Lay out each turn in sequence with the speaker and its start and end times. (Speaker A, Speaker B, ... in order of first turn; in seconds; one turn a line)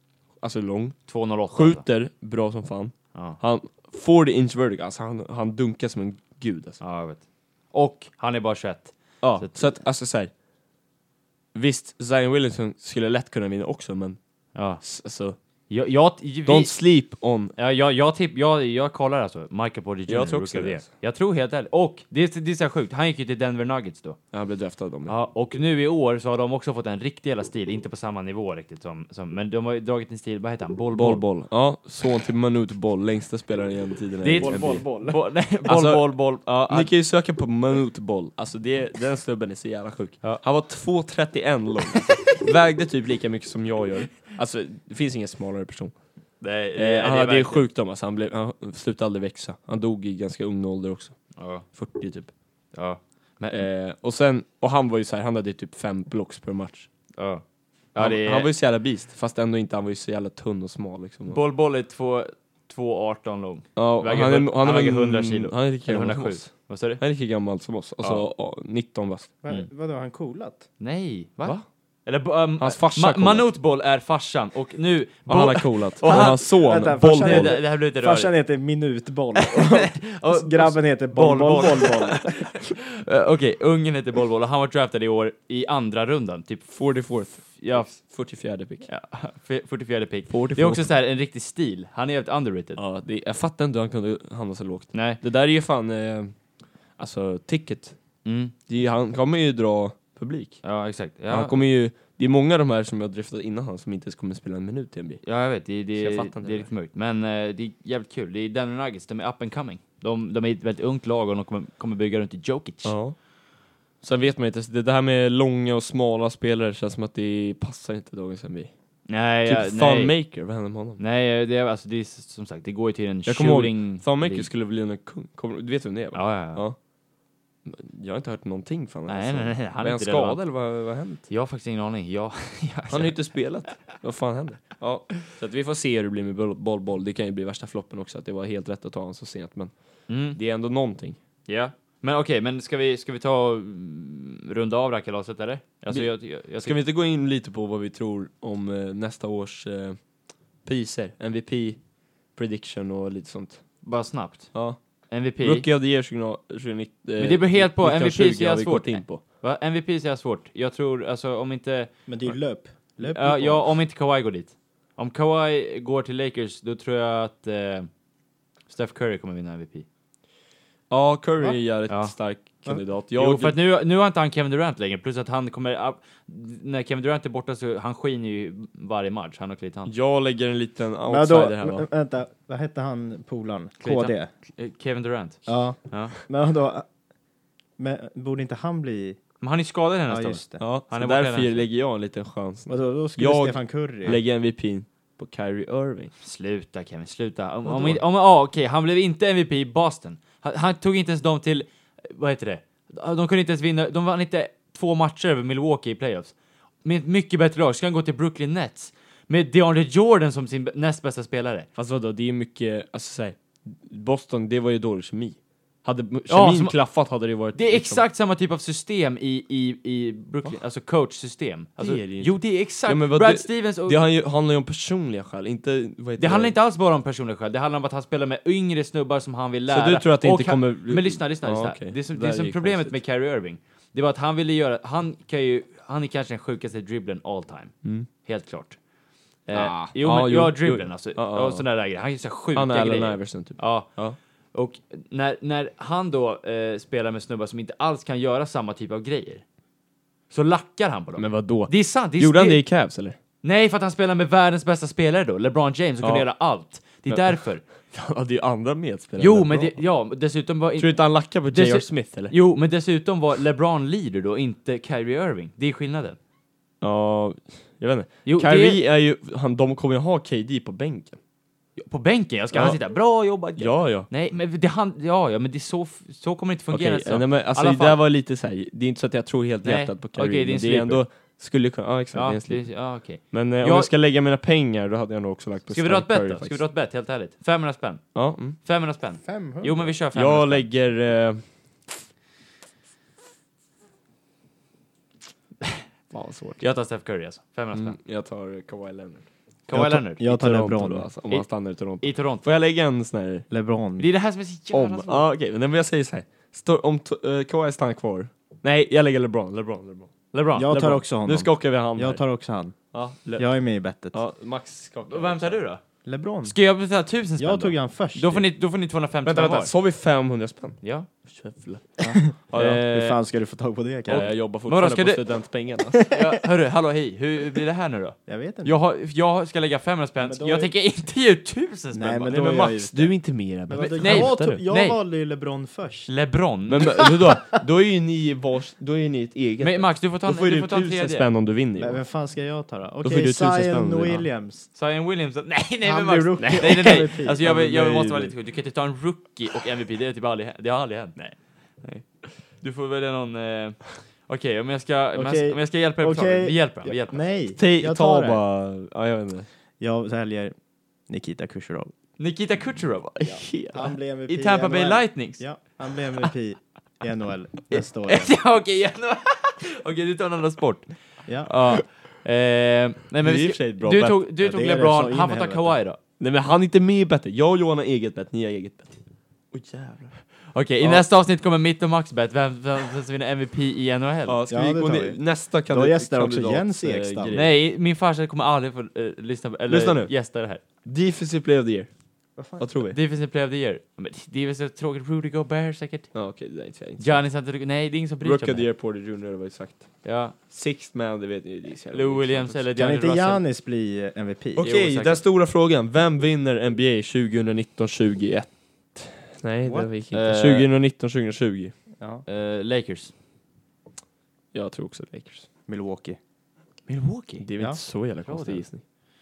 Speaker A: 0.4-6.8
Speaker B: 1.1-1.8
Speaker B: 3.1-3.4
Speaker B: 6.8-9.8
Speaker A: 9.2-10.3
Speaker A: 11.5-14.2
Speaker B: 14.5-14.8
Speaker A: 14.8-15.3
Speaker B: 15.7-16.8
Speaker A: 16.4-17.5
Speaker B: 17.6-24.2
Speaker A: 20.1-20.8
Speaker A: 24.3-25.1
Speaker B: 25.1-31.2
Speaker A: 30.9-35.0
Speaker B: 34.2-36.9
Speaker C: 34.4-35.1
Speaker A: 35.6-45.9
Speaker B: 41.9-42.4
Speaker B: 46.4-47.7
Speaker A: 46.7-51.2
Speaker B: 51.4-51.6
Speaker A: 51.7-52.3
Speaker B: 52.7-53.7
Speaker A: 53.5-56.9
Speaker B: 57.2-57.4
Speaker B: 57.9-58.5
Speaker A: 58.0-61.4
Speaker B: 61.2-67.0
Speaker A: 63.8-69.3
Speaker C: 69.4-70.7
Speaker B: 70.8-76.5
Speaker A: 72.6-73.5
Speaker A: 75.3-77.6
Speaker C: 76.1-82.6
Speaker B: 77.0-78.3
Speaker B: 79.4-86.7
Speaker A: 81.2-81.9
Speaker A: 86.7-88.9
Speaker B: 87.5-87.9
Speaker B: 88.9-92.8
Speaker A: 90.3-90.9
Speaker A: 92.8-96.3
Speaker B: 94.9-95.2
Speaker A: 97.0-98.0
Speaker B: 98.2-98.5
Speaker A: 98.7-100.6
Speaker B: 100.6-101.6
Speaker A: 101.3-105.2
Speaker B: 105.2-113.0
Speaker A: 105.9-106.7
Speaker A: 112.8-113.2
Speaker A: 114.0-118.7
Speaker B: 119.1-120.2
Speaker A: 119.4-121.0
Speaker B: 121.0-124.5
Speaker A: 123.2-126.8
Speaker B: 126.1-126.6
Speaker A: 127.6-131.2
Speaker B: 129.1-130.4
Speaker B: 131.3-133.2
Speaker A: 132.9-139.7
Speaker B: 140.1-140.4
Speaker A: 140.3-141.2
Speaker B: 141.5-146.8
Speaker A: 145.9-150.0
Speaker A: 150.6-151.8
Speaker A: 152.3-153.6
Speaker B: 153.8-154.5
Speaker B: 155.1-155.7
Speaker A: 155.4-159.2
Speaker B: 157.2-161.9
Speaker C: 162.1-163.7
Speaker B: 163.0-167.9
Speaker B: 168.7-169.8
Speaker A: 170.9-173.6
Speaker B: 171.9-172.1
Speaker B: 173.1-179.9
Speaker A: 179.9-181.9
Speaker C: 181.1-184.3
Speaker B: 183.8-186.2
Speaker C: 185.4-186.9
Speaker C: 187.8-189.2
Speaker B: 189.4-191.7
Speaker C: 190.1-190.6
Speaker A: 190.6-196.1
Speaker C: 192.7-194.2
Speaker B: 196.2-211.7
Speaker A: 211.8-218.0
Speaker B: 216.3-216.8
Speaker B: 217.5-224.1
Speaker A: 221.8-226.6
Speaker B: 226.2-238.8
Speaker A: 229.7-233.0
Speaker B: 239.4-243.9
Speaker A: 239.5-241.7
Speaker A: 242.5-244.2
Speaker B: 244.5-249.4
Speaker B: 250.3-252.7
Speaker A: 251.2-253.2
Speaker B: 253.4-257.6
Speaker A: 256.0-256.3
Speaker A: 257.1-257.4
Speaker A: 257.9-259.8
Speaker B: 259.2-266.2
Speaker A: 260.8-262.3
Speaker A: 266.8-271.2
Speaker B: 268.2-268.8
Speaker B: 271.8-278.0
Speaker A: 272.5-272.8
Speaker A: 273.6-274.1
Speaker A: 276.7-286.6
Speaker B: 279.6-281.0
Speaker B: 282.1-283.9
Speaker B: 285.7-288.0
Speaker A: 288.1-288.6
Speaker B: 288.6-290.7
Speaker C: 289.2-289.9
Speaker A: 290.1-291.9
Speaker A: 296.1-296.6
Speaker B: 296.6-298.0
Speaker A: 297.7-299.2
Speaker B: 299.7-300.2
Speaker C: 299.7-301.1
Speaker A: 300.2-303.4
Speaker B: 302.0-302.4
Speaker C: 303.5-304.1
Speaker B: 304.0-305.3
Speaker A: 304.7-310.1
Speaker B: 310.3-310.7
Speaker C: 310.6-312.8
Speaker A: 310.7-312.2
Speaker A: 312.9-313.5
Speaker C: 313.4-314.2
Speaker A: 314.1-315.6
Speaker B: 315.1-315.8
Speaker C: 316.0-316.6
Speaker B: 316.4-319.7
Speaker C: 317.4-318.4
Speaker A: 319.2-322.0
Speaker B: 320.8-321.1
Speaker C: 322.0-324.3
Speaker B: 322.1-323.2
Speaker A: 324.1-326.0
Speaker B: 324.1-325.2
Speaker C: 325.9-326.4
Speaker B: 326.1-332.4
Speaker C: 328.3-328.8
Speaker C: 330.2-330.7
Speaker C: 331.9-336.1
Speaker A: 332.3-334.6
Speaker B: 333.8-335.0
Speaker B: 336.1-337.0
Speaker A: 336.7-342.0
Speaker C: 336.9-337.6
Speaker B: 339.6-341.3
Speaker C: 341.8-344.7
Speaker A: 343.0-344.2
Speaker B: 344.7-357.2
Speaker C: 345.8-348.0
Speaker A: 346.4-348.3
Speaker C: 355.1-358.4
Speaker A: 357.5-359.5
Speaker C: 359.8-360.6
Speaker C: 361.1-361.9
Speaker B: 362.2-363.5
Speaker A: 363.2-363.9
Speaker C: 363.7-368.4
Speaker B: 364.3-365.4
Speaker B: 367.7-370.9
Speaker C: 371.2-371.5
Speaker B: 371.4-376.0
Speaker A: 373.2-374.2
Speaker C: 374.4-375.8
Speaker A: 376.2-379.0
Speaker A: 379.5-380.2
Speaker B: 380.5-384.4
Speaker A: 380.8-381.1
Speaker A: 384.2-387.5
Speaker C: 384.5-387.4
Speaker B: 387.3-390.6
Speaker A: 389.7-390.1
Speaker A: 390.8-391.9
Speaker C: 392.4-392.7
Speaker A: 392.6-393.0
Speaker B: 392.9-396.1
Speaker A: 396.1-397.2
Speaker B: 397.0-398.6
Speaker A: 398.2-402.6
Speaker B: 400.0-400.3
Speaker B: 401.9-403.4
Speaker C: 402.8-404.7
Speaker A: 404.6-411.7
Speaker B: 404.6-405.2
Speaker C: 409.6-409.9
Speaker B: 410.1-410.7
Speaker C: 412.0-412.2
Speaker B: 412.2-413.1
Speaker A: 414.5-415.5
Speaker C: 415.7-416.2
Speaker B: 416.9-417.4
Speaker A: 417.4-418.8
Speaker B: 418.2-418.7